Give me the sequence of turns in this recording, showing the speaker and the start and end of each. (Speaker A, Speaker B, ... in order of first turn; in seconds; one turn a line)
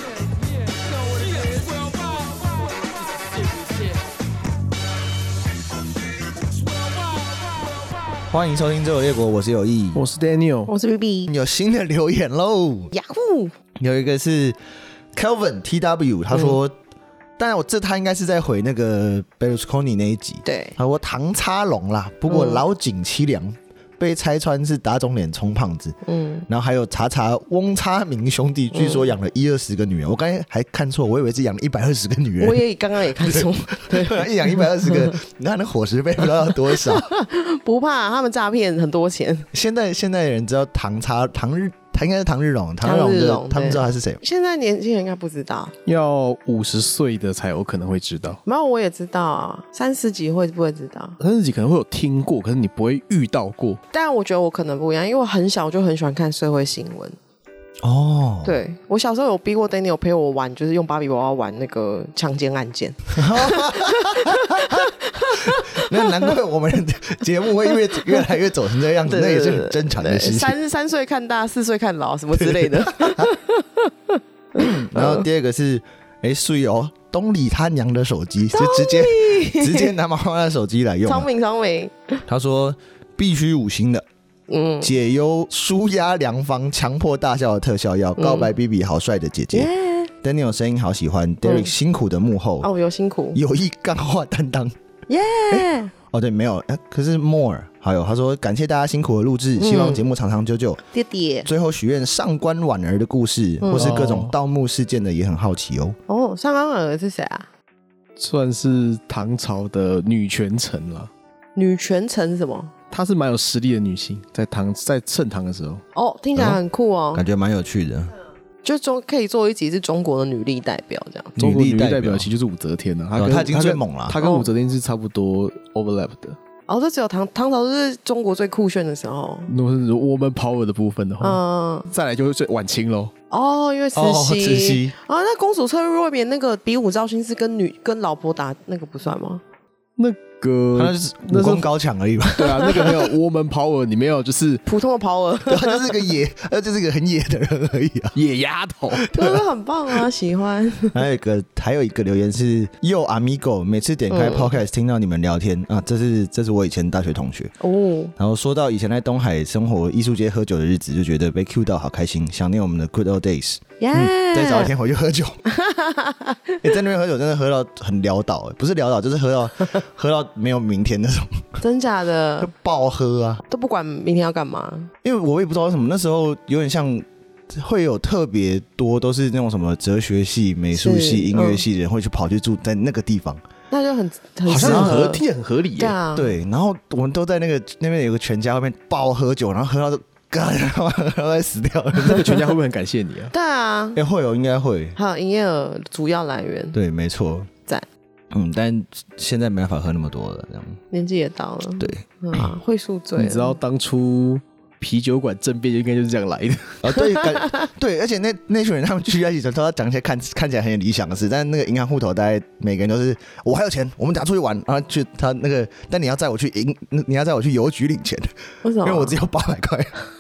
Speaker A: 8.3-10.0
Speaker B: 9.9-10.7
Speaker C: 10.7-11.3
Speaker A: 11.3-12.9
Speaker C: 12.9-13.6
Speaker A: 13.8-14.6
Speaker A: 15.1-16.8
Speaker C: 16.3-16.6
Speaker A: 17.4-26.0
Speaker C: 20.4-20.8
Speaker C: 22.3-22.6
Speaker C: 26.1-26.5
Speaker A: 26.5-37.1
Speaker C: 28.7-29.1
Speaker C: 32.4-35.2
Speaker C: 36.5-39.5
Speaker A: 39.5-44.2
Speaker C: 42.8-45.7
Speaker B: 45.9-48.4
Speaker C: 48.5-51.2
Speaker B: 51.2-53.8
Speaker C: 53.9-57.2
Speaker A: 57.8-58.6
Speaker C: 58.4-66.3
Speaker A: 63.1-70.5
Speaker C: 67.7-68.2
Speaker C: 69.1-75.2
Speaker A: 72.4-73.3
Speaker A: 74.5-81.3
Speaker C: 78.5-79.9
Speaker C: 81.1-82.2
Speaker A: 82.3-84.0
Speaker C: 84.5-84.9
Speaker A: 84.8-89.7
Speaker C: 88.2-88.5
Speaker C: 89.5-90.1
Speaker A: 90.2-92.7
Speaker C: 91.4-91.7
Speaker C: 92.6-93.4
Speaker A: 93.3-94.7
Speaker C: 95.1-95.9
Speaker A: 95.5-100.8
Speaker C: 99.6-100.0
Speaker C: 100.9-101.5
Speaker A: 101.5-106.0
Speaker C: 103.6-104.0
Speaker B: 103.7-104.3
Speaker C: 106.1-107.5
Speaker B: 108.2-111.1
Speaker C: 111.5-112.7
Speaker B: 112.9-115.8
Speaker C: 115.9-117.2
Speaker A: 117.1-118.1
Speaker C: 118.6-121.4
Speaker A: 121.4-122.3
Speaker B: 121.4-126.4
Speaker A: 123.2-124.2
Speaker C: 124.2-124.5
Speaker C: 126.7-129.5
Speaker B: 129.5-133.1
Speaker C: 131.2-131.9
Speaker C: 133.3-139.4
Speaker A: 133.9-134.9
Speaker B: 140.0-141.7
Speaker A: 140.8-143.1
Speaker B: 142.4-144.6
Speaker C: 142.4-142.9
Speaker C: 144.7-146.1
Speaker A: 145.5-148.2
Speaker B: 148.2-149.1
Speaker A: 148.9-149.4
Speaker C: 149.1-151.0
Speaker A: 150.9-157.6
Speaker C: 154.1-154.6
Speaker C: 157.6-158.1
Speaker A: 158.2-165.4
Speaker C: 163.8-164.7
Speaker C: 165.5-166.6
Speaker A: 166.6-171.4
Speaker C: 171.6-172.5
Speaker A: 172.4-173.4
Speaker C: 173.5-174.9
Speaker A: 175.0-183.4
Speaker C: 180.7-181.6
Speaker C: 183.7-185.2
Speaker B: 184.5-186.0
Speaker A: 184.6-185.1
Speaker C: 185.8-186.3
Speaker A: 186.2-192.4
Speaker B: 192.1-193.3
Speaker C: 193.3-194.0
Speaker A: 194.0-195.0
Speaker C: 194.9-196.8
Speaker A: 196.7-197.5
Speaker A: 198.3-200.8
Speaker C: 200.9-203.6
Speaker A: 201.8-202.5
Speaker B: 203.2-206.8
Speaker A: 206.8-219.9
Speaker C: 207.0-207.7
Speaker C: 218.6-219.2